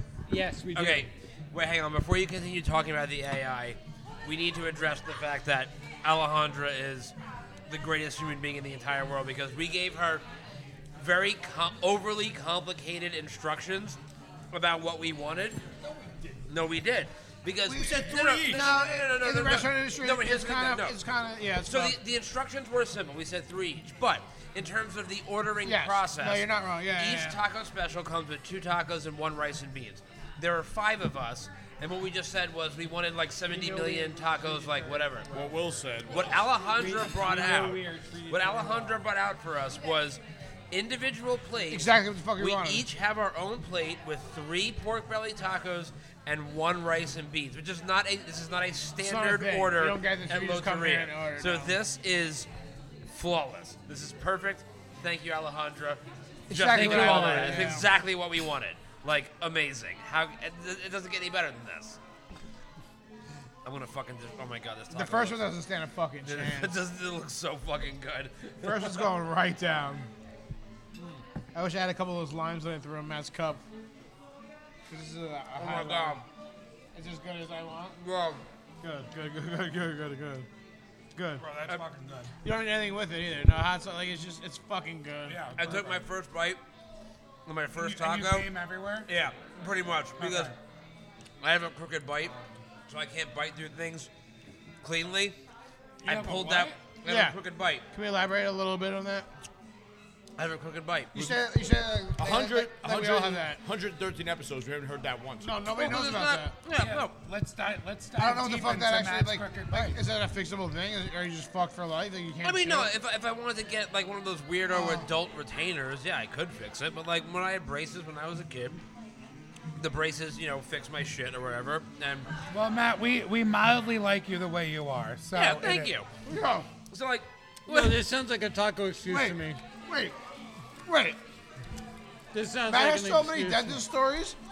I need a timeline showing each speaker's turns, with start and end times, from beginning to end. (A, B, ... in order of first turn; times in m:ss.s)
0:00.3-0:01.1 A
0:00.8-0:07.1 B
0:07.7-0:10.2 B
0:11.0-0:14.0 B
0:14.5-0:15.6 B
0:16.5-0:21.0 B
0:17.7-0:18.7 C
0:17.7-0:22.0 D
0:21.6-0:35.3 B
0:25.6-0:27.4 D
0:33.5-0:35.5 A
0:35.3-0:36.5 C
0:36.1-0:40.2 B
0:36.7-0:39.0 A
0:40.7-0:52.5 B
0:41.7-0:42.8 D
0:49.0-0:51.8 D
0:53.1-1:02.0 B
0:56.5-0:57.9 D
0:56.7-0:57.7 A
1:03.6-1:05.4 B
1:04.9-1:06.8 D
1:06.2-1:09.1 B
1:08.6-1:10.1 D
1:11.5-1:13.6 D
1:14.9-1:16.2 D
1:15.6-1:16.2 B
1:17.0-1:18.0 D
1:18.0-1:18.4 B
1:18.8-1:20.5 D
1:21.2-1:21.4 D
1:21.4-1:22.3 E
1:22.4-1:25.5 D
1:25.3-1:26.0 E
1:25.6-1:26.6 B
1:27.5-1:28.5 B
1:27.8-1:29.1 E
1:29.1-1:30.5 B
1:30.2-1:30.6 E
1:31.4-1:32.3 B
1:32.9-1:34.1 B
1:34.8-1:35.4 B
1:36.0-1:36.8 E
1:36.0-1:37.8 B
1:37.0-1:37.4 D
1:37.9-1:39.3 D
1:40.4-1:41.1 B
1:41.1-1:43.6 D
1:42.2-1:45.5 C
1:45.4-1:46.6 D
1:45.7-1:47.1 B
1:46.7-1:50.0 E
1:48.2-1:52.9 D
1:52.4-1:58.8 B
1:54.7-1:55.1 D
1:59.8-2:02.3 B
2:02.5-2:05.9 E
2:05.4-2:06.1 B
2:06.2-2:06.7 D
2:06.9-2:08.0 B
2:07.7-2:09.6 A
2:09.1-2:10.2 D
2:10.9-2:11.2 D
2:12.3-2:13.8 A
2:12.7-2:14.4 D